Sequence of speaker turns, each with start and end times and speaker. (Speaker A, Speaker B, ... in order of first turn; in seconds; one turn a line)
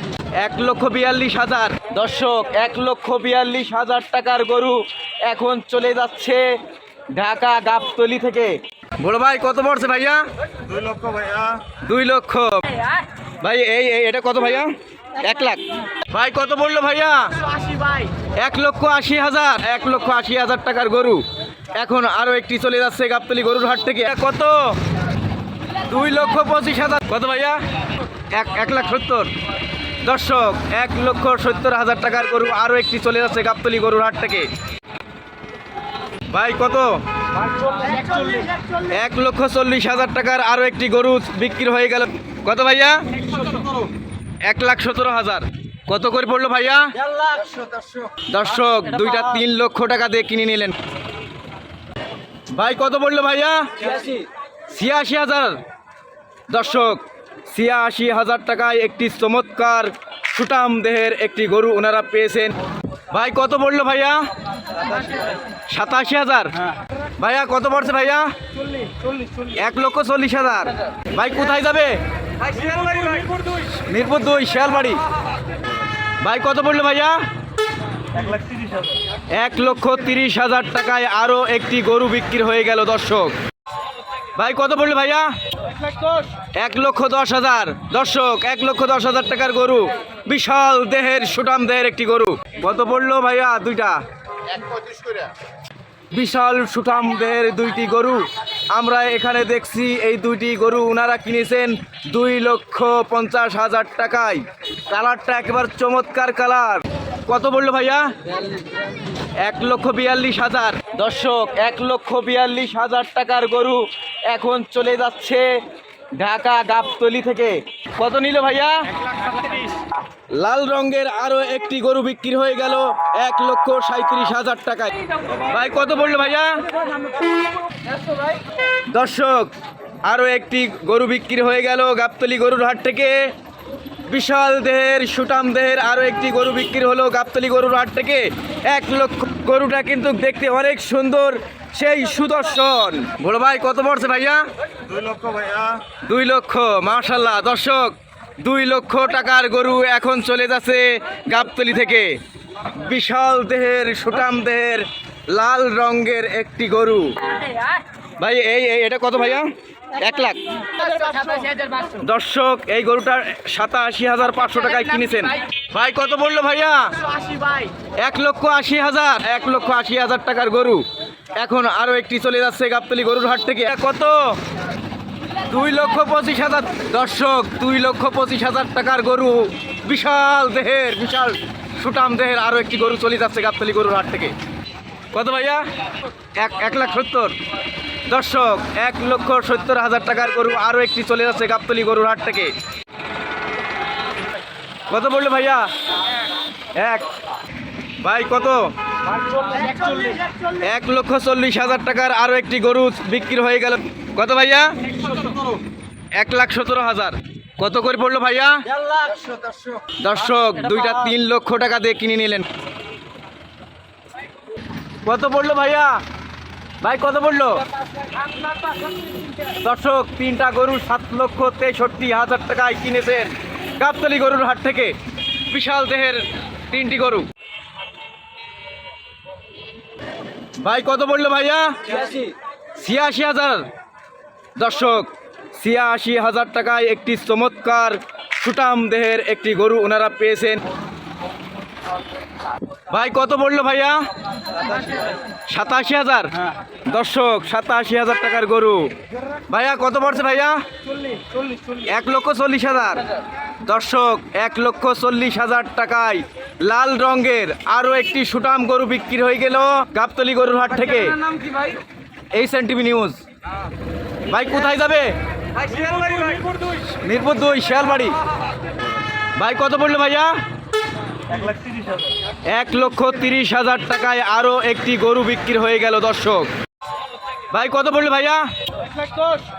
Speaker A: 0.4-6.6
Speaker A: 7.1-10.2
Speaker B: 10.7-11.6
Speaker A: 11.7-12.8
Speaker A: 13.4-17.7
Speaker A: 18.4-21.2
Speaker A: 21.8-24.8
Speaker A: 25.9-27.6
Speaker A: 28.3-29.3
Speaker A: 30.0-34.5
Speaker A: 36.3-37.0
Speaker B: 37.6-38.6
Speaker A: 38.8-43.3
Speaker A: 44.4-47.0
Speaker B: 47.0-48.2
Speaker A: 48.2-50.8
Speaker A: 52.5-54.1
Speaker A: 54.7-55.6
Speaker A: 56.5-62.5
Speaker A: 63.1-64.3
Speaker A: 65.7-66.7
Speaker A: 67.2-68.3
Speaker A: 69.4-72.0
Speaker A: 72.6-73.1
Speaker A: 73.6-75.0
Speaker A: 76.2-77.2
Speaker B: 78.2-78.9
Speaker A: 79.3-83.3
Speaker A: 84.3-85.3
Speaker A: 86.4-94.0
Speaker A: 96.1-108.1
Speaker A: 109.4-115.6
Speaker A: 116.2-118.9
Speaker A: 120.3-126.6
Speaker A: 128.9-129.5
Speaker A: 130.1-133.3
Speaker A: 134.1-152.2
Speaker B: 144.9-145.7
Speaker A: 152.7-157.2
Speaker A: 158.2-160.9
Speaker B: 160.8-161.9
Speaker A: 161.9-167.2
Speaker B: 167.2-167.7
Speaker A: 168.0-170.8
Speaker A: 171.4-174.4
Speaker A: 175.5-184.3
Speaker A: 185.1-185.6
Speaker A: 186.4-187.3
Speaker A: 188.1-192.5
Speaker A: 194.9-195.7
Speaker A: 196.7-197.1
Speaker A: 198.0-198.7
Speaker B: 199.3-200.2
Speaker A: 200.5-204.9
Speaker A: 206.2-208.7
Speaker B: 208.7-209.9
Speaker A: 209.9-212.5
Speaker A: 215.0-216.0
Speaker A: 216.8-217.6
Speaker A: 219.4-224.9
Speaker A: 225.5-227.3
Speaker A: 230.6-232.2
Speaker A: 232.8-233.7
Speaker A: 234.6-240.6
Speaker A: 242.9-244.1
Speaker A: 245.5-248.9
Speaker A: 249.5-250.6
Speaker A: 251.8-253.0
Speaker A: 253.7-261.3
Speaker A: 262.3-263.2
Speaker A: 264.3-265.1
Speaker B: 265.7-266.5
Speaker A: 266.9-268.1
Speaker A: 269.4-270.3
Speaker B: 271.4-272.0
Speaker A: 272.5-276.5
Speaker A: 277.5-278.5
Speaker B: 279.0-279.4